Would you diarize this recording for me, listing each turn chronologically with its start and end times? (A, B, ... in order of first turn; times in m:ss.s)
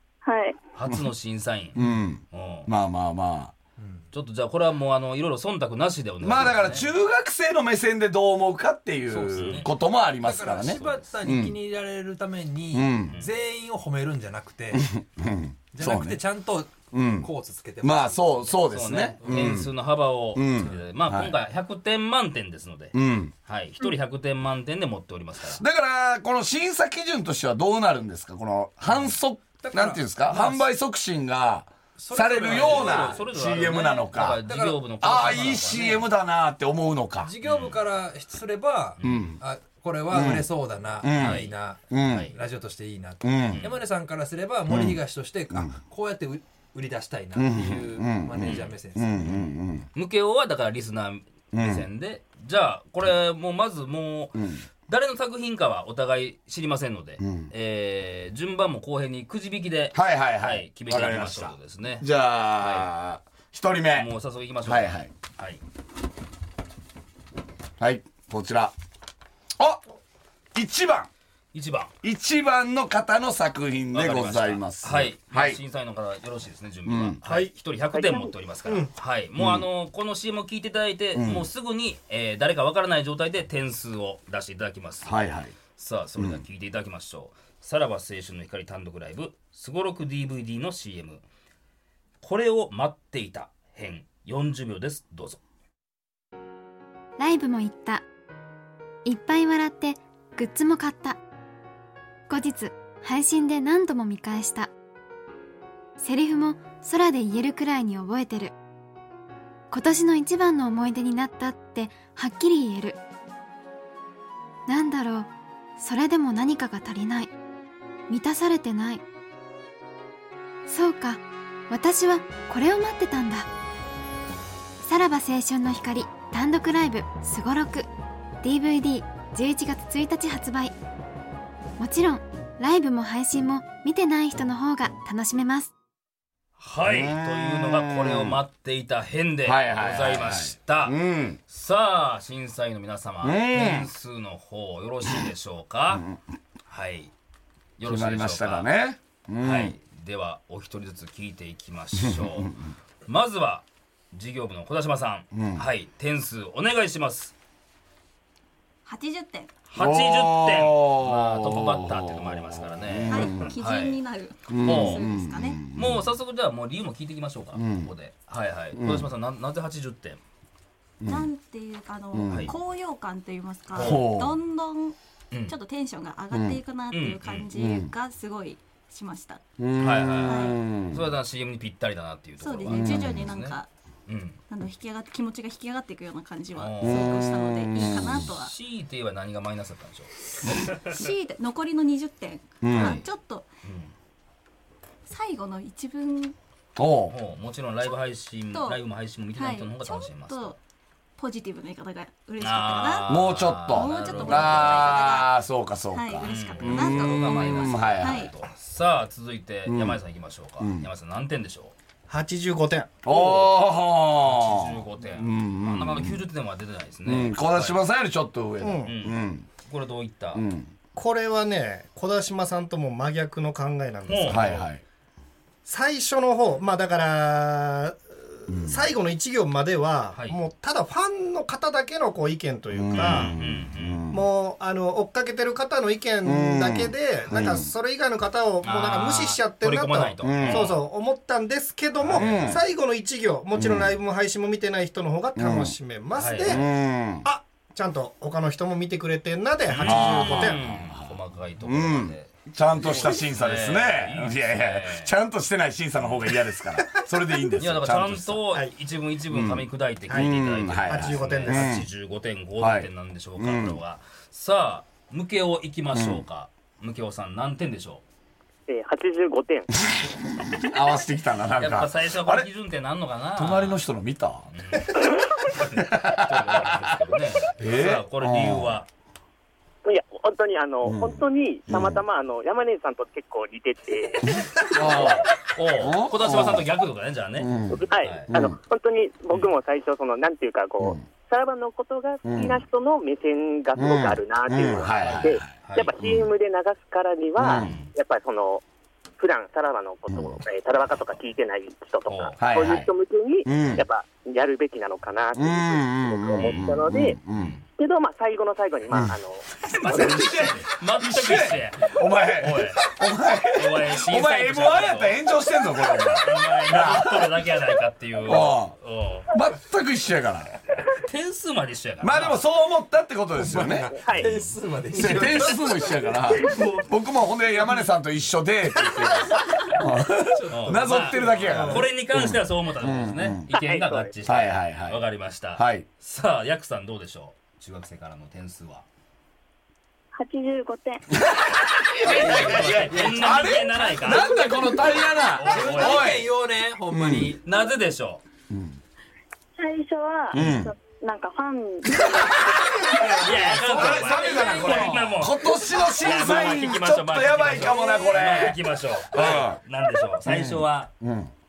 0:00.2-0:00.6 A
0:00.8-0:01.8 B
0:01.8-0:03.5 C
0:02.3-0:02.7 B
0:03.8-0:04.1 D
0:04.1-0:06.9 B
0:06.2-0:11.6 C
0:09.1-0:14.9 D
0:09.3-0:09.7 B
0:12.7-0:13.2 C
0:14.7-0:16.2 C
0:15.7-0:18.5 D
0:16.9-0:17.3 C
0:17.8-0:19.7 C
0:18.7-0:25.6 B
0:19.2-0:19.6 D
0:20.3-0:21.4 C
0:22.9-0:23.3 C
0:25.5-0:34.4 C
0:29.6-0:30.7 D
0:32.0-0:33.3 D
0:32.4-0:36.1 B
0:34.4-0:34.9 D
0:35.0-0:37.3 C
0:37.2-0:49.5 D
0:37.4-0:37.8 B
0:39.0-0:39.4 B
0:39.0-0:39.4 C
0:40.1-0:40.5 C
0:41.0-0:42.3 C
0:41.2-0:41.5 B
0:42.1-0:42.4 B
0:43.2-0:43.6 C
0:43.5-0:43.8 B
0:44.7-0:45.0 C
0:45.5-0:45.8 C
0:47.4-0:49.9 C
0:48.4-0:48.7 B
0:49.9-1:02.9 B
0:51.5-0:51.9 C
0:54.4-0:54.6 C
0:57.2-0:57.5 C
0:59.9-1:04.1 C
1:03.9-1:05.6 B
1:04.6-1:05.1 C
1:07.8-1:08.7 C
1:09.6-1:09.8 C
1:10.5-1:11.1 C
1:11.5-1:11.9 B
1:12.0-1:15.6 C
1:13.9-1:25.1 B
1:16.9-1:17.2 C
1:17.2-1:17.5 E
1:17.9-1:18.3 F
1:19.4-1:19.7 C
1:21.1-1:21.5 C
1:25.0-1:25.5 C
1:25.8-1:31.2 B
1:26.2-1:26.4 C
1:32.2-1:35.4 B
1:37.2-1:38.0 G
1:39.0-1:41.2 G
1:42.3-1:44.7 G
1:46.0-1:48.5 G
1:49.7-1:53.0 G
1:54.7-1:57.3 G
1:58.1-1:59.0 G
2:00.7-2:03.5 G
2:04.8-2:07.9 G
2:08.4-2:10.8 G
2:11.8-2:15.7 G
2:16.6-2:21.0 B
2:16.8-2:18.4 C
2:19.4-2:21.4 C
2:21.5-2:26.0 B
2:23.2-2:23.9 C
2:26.7-2:27.1 B
2:27.8-2:28.7 B
2:27.8-2:29.8 C
2:29.4-2:32.6 B
2:32.0-2:32.5 C
2:33.1-2:37.4 B
2:35.3-2:35.6 C
2:38.9-2:39.5 H
2:39.7-2:44.0 B
2:39.8-2:43.5 C
2:43.1-2:45.6 H
2:44.5-2:46.1 C
2:44.6-2:45.0 B
2:45.7-2:50.2 B
2:47.6-2:47.9 C
2:48.8-2:49.1 C
2:51.0-2:51.3 C
2:51.1-2:59.4 H
2:52.1-2:52.5 C
2:53.8-2:54.1 B
2:53.8-2:54.4 C
2:56.3-2:56.6 C
2:56.9-2:57.5 B
2:57.5-2:57.9 C
2:59.6-3:01.1 C
2:59.8-3:04.4 B
3:00.2-3:00.6 H
3:02.4-3:03.7 H
3:02.7-3:03.3 C
3:04.5-3:08.5 H
3:06.6-3:07.2 B
3:06.8-3:08.3 C
3:08.2-3:10.9 B
3:10.8-3:13.5 H
3:12.6-3:13.0 C
3:12.8-3:13.1 B
3:13.6-3:13.9 B
3:15.1-3:16.4 H
3:16.8-3:17.2 C
3:17.1-3:20.6 B
3:18.5-3:18.8 H
3:19.4-3:20.6 H
3:21.2-3:25.3 H
3:22.4-3:25.2 B
3:23.1-3:28.3 C
3:25.9-3:28.3 H
3:26.2-3:31.8 B
3:29.7-3:30.0 C
3:30.6-3:30.9 C
3:32.1-3:33.4 E
3:33.0-3:36.2 C
3:34.2-3:37.8 B
3:37.0-3:39.5 C
3:38.6-3:38.9 E
3:38.8-3:40.4 B
3:40.3-3:40.7 C
3:41.0-3:44.6 E
3:44.1-3:44.7 B
3:44.3-3:44.8 C
3:45.7-3:53.4 E
3:48.5-3:48.9 C
3:50.1-3:50.4 B
3:52.7-3:54.3 C
3:52.9-3:54.0 B
3:54.1-4:06.7 E
3:56.2-3:57.7 C
3:58.6-4:00.8 B
4:00.2-4:00.8 C
4:02.0-4:02.6 B
4:02.1-4:02.6 C
4:03.6-4:04.0 C
4:05.4-4:05.8 C
4:06.2-4:06.6 B
4:06.4-4:07.3 C
4:07.2-4:10.6 E
4:09.7-4:15.1 B
4:09.8-4:18.4 C
4:17.6-4:28.0 B
4:19.3-4:21.9 C
4:20.9-4:21.8 E
4:22.6-4:23.8 C
4:25.9-4:26.2 C
4:28.7-4:29.7 F
4:30.4-4:32.5 C
4:31.6-4:33.8 B
4:33.4-4:34.5 C
4:34.5-4:38.9 B
4:35.8-4:36.9 C
4:37.6-4:38.8 C
4:39.8-4:45.2 F
4:40.8-4:42.0 C
4:44.3-4:46.7 C
4:45.4-4:48.3 B
4:47.4-4:48.6 C
4:47.7-4:58.6 F
4:50.8-4:51.1 C
4:52.2-4:52.6 C
4:53.8-4:56.3 C
4:55.0-4:55.9 B
4:57.4-4:57.8 C
4:57.5-4:57.9 B
4:59.2-5:07.2 F
5:00.1-5:00.4 C
5:02.1-5:02.4 B
5:02.4-5:02.9 C
5:03.4-5:03.8 C
5:05.4-5:07.6 C
5:07.3-5:07.6 B
5:07.8-5:10.4 F
5:09.8-5:17.3 C
5:09.8-5:12.9 B
5:13.5-5:15.2 B
5:16.2-5:19.3 B
5:18.3-5:18.7 C
5:19.3-5:20.6 C
5:20.8-5:22.5 B
5:22.0-5:24.0 C
5:23.4-5:26.9 D
5:24.0-5:24.3 F
5:24.9-5:33.5 C
5:27.5-5:27.9 D
5:30.2-5:31.9 D
5:30.5-5:38.9 B
5:33.5-5:34.1 F
5:34.2-5:35.0 C
5:35.5-5:35.9 C
5:40.1-5:41.1 A
5:41.2-5:46.3 C
5:42.0-5:46.2 B
5:42.1-5:47.4 D
5:46.9-5:47.4 C
5:47.4-5:48.2 B
5:48.5-5:48.8 C
5:49.6-5:53.2 A
5:50.3-5:50.7 C
5:52.0-5:58.6 C
5:53.1-6:00.9 B
5:53.9-5:54.8 D
5:59.1-5:59.6 C
6:00.2-6:01.3 C